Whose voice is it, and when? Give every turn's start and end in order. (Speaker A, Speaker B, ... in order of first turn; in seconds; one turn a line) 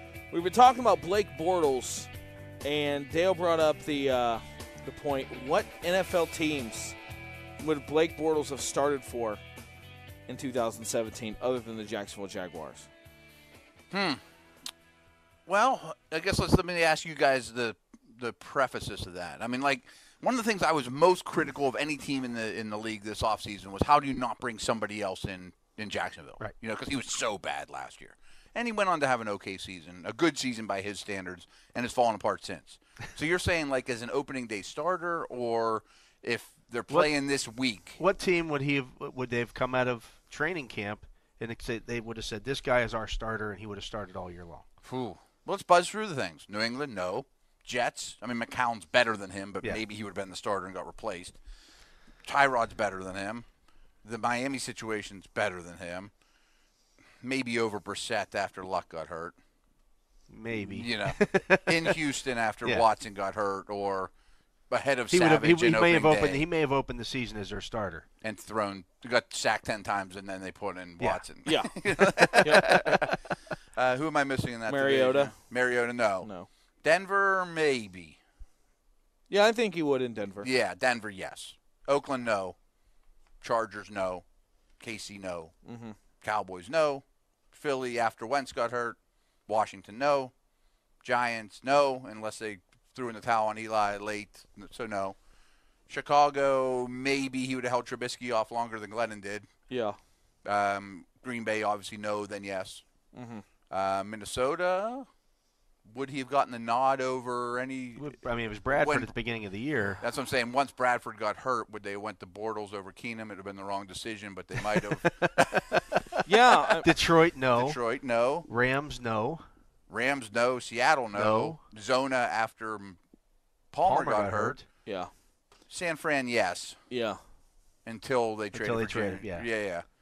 Speaker A: 0.3-2.1
Speaker A: 2.6-7.0
Speaker A: 7.6-9.4
Speaker A: 10.3-12.9
Speaker B: 13.9-14.2
Speaker B: 15.5-38.0
Speaker C: 38.0-44.7
Speaker B: 44.8-51.4
Speaker B: 52.2-53.5
Speaker B: 54.0-56.1
Speaker B: 57.2-59.4
Speaker C: 60.3-62.0
Speaker B: 60.5-64.1
Speaker B: 64.7-66.4
Speaker C: 65.1-68.1
Speaker B: 68.2-73.1
Speaker C: 71.0-73.1
Speaker A: 71.4-71.7
Speaker B: 73.8-76.3
Speaker A: 74.7-75.5
Speaker A: 76.2-76.5
Speaker B: 76.8-78.2
Speaker A: 79.3-80.5
Speaker B: 80.4-82.6
Speaker B: 83.4-84.2
Speaker B: 84.8-85.5
Speaker A: 85.7-86.0
Speaker B: 86.2-90.3
Speaker B: 91.0-95.2
Speaker B: 95.9-99.5
Speaker A: 99.7-100.0
Speaker B: 100.4-102.8
Speaker A: 103.1-103.4
Speaker B: 103.7-105.1
Speaker B: 105.8-109.2
Speaker C: 108.0-110.0
Speaker B: 110.0-115.8
Speaker A: 116.2-116.9
Speaker C: 116.8-119.4
Speaker B: 117.5-118.5
Speaker B: 119.9-123.0
Speaker C: 121.1-121.6
Speaker B: 123.7-124.6
Speaker C: 123.8-124.7
Speaker A: 124.8-125.1
Speaker B: 125.7-126.8
Speaker A: 126.9-127.2
Speaker B: 127.8-129.8
Speaker C: 128.5-129.5